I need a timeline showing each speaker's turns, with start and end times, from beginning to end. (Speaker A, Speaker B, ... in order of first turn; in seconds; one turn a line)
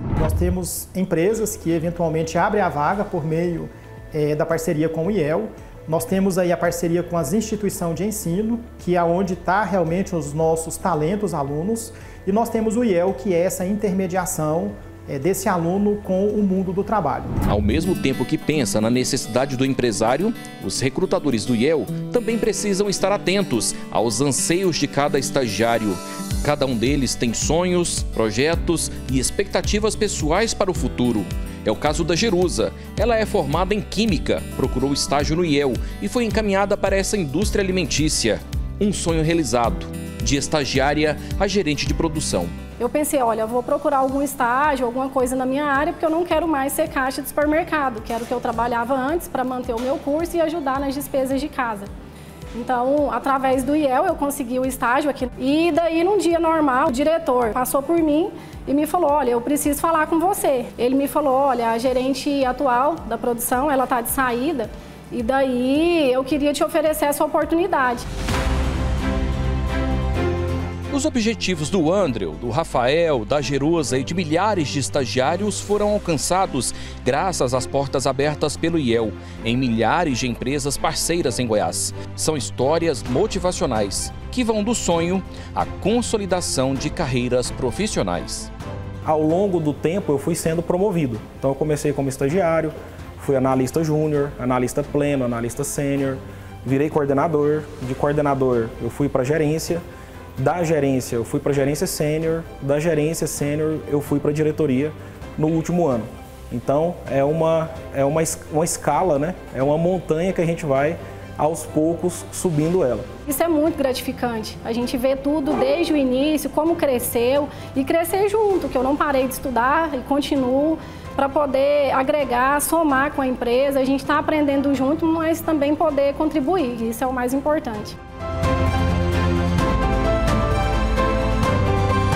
Speaker A: 0.1-17.3
Speaker B: 17.5-42.5
Speaker C: 42.8-51.9
Speaker C: 52.5-68.0
Speaker B: 70.9-88.5
Speaker D: 89.0-99.8
Speaker D: 100.4-113.1
Speaker C: 113.2-128.0